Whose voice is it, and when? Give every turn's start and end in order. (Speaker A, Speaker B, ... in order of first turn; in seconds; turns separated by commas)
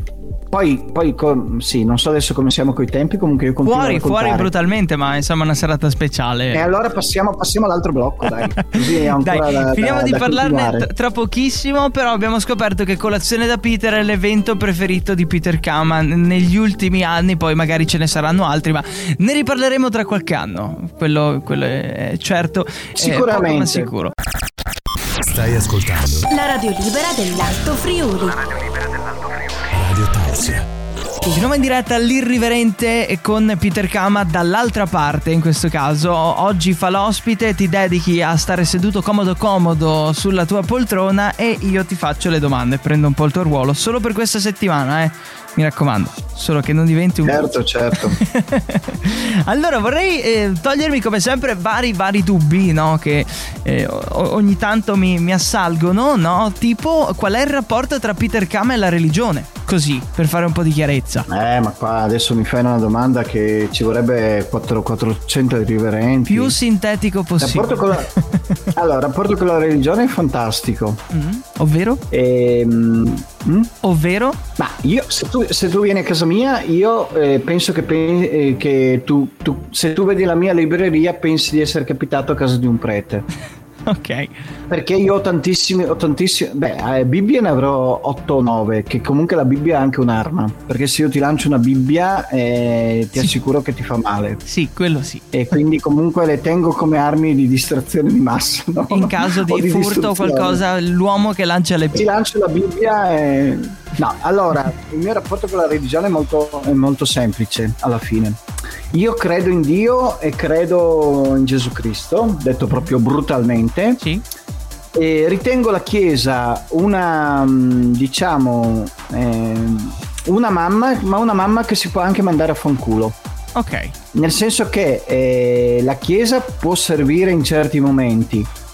Speaker A: 0.5-4.5, Speaker B: 3.6-6.7, Speaker A: 6.5-10.9, Speaker B: 8.4-24.1, Speaker A: 22.9-23.9, Speaker C: 25.2-26.3, Speaker D: 26.3-28.4, Speaker C: 29.7-30.7, Speaker B: 31.3-61.3, Speaker A: 47.2-48.2, Speaker A: 61.3-66.6, Speaker B: 66.3-68.3, Speaker A: 67.4-68.1, Speaker A: 68.7-71.0, Speaker B: 71.1-72.0, Speaker A: 72.1-73.7, Speaker B: 73.8-74.4, Speaker A: 74.6-83.2, Speaker B: 83.8-84.3, Speaker A: 84.7-94.4, Speaker B: 94.5-95.2, Speaker A: 95.3-100.6, Speaker B: 98.9-102.1, Speaker A: 101.9-108.4, Speaker A: 108.9-114.0, Speaker A: 114.9-123.2, Speaker B: 123.5-123.9, Speaker A: 124.1-128.5